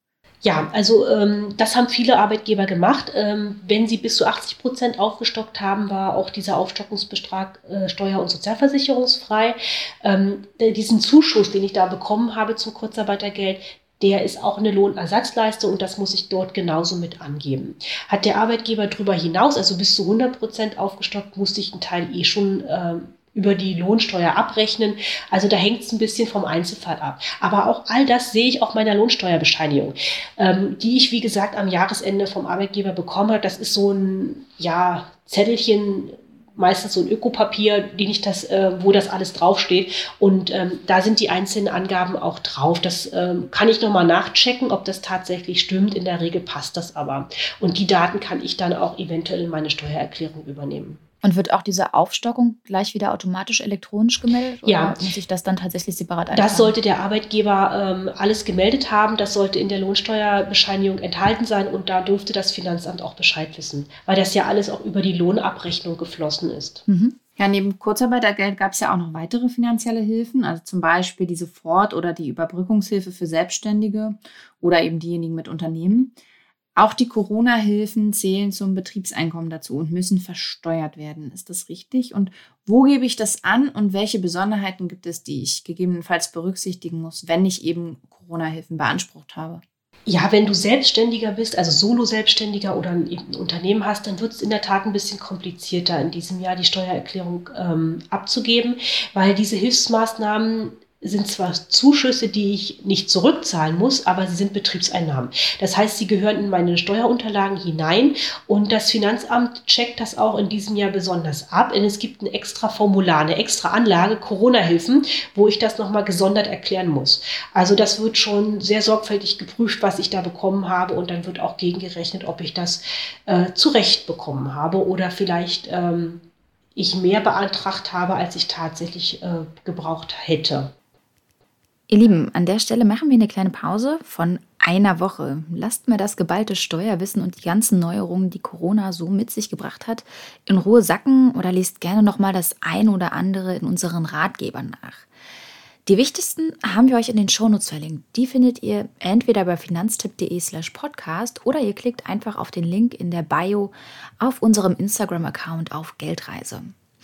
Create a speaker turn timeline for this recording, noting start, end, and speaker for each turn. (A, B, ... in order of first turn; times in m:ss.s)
0:00.4-0:51.0 A
0:51.2-0:56.7 B
0:54.6-0:55.0 A
0:56.3-1:06.8 A
1:06.9-1:07.2 B
1:07.4-1:16.1 C
1:16.8-1:29.6 C
1:30.1-2:06.2 A
2:06.8-2:10.7 A
2:11.9-2:25.1 B
2:25.9-2:36.7 B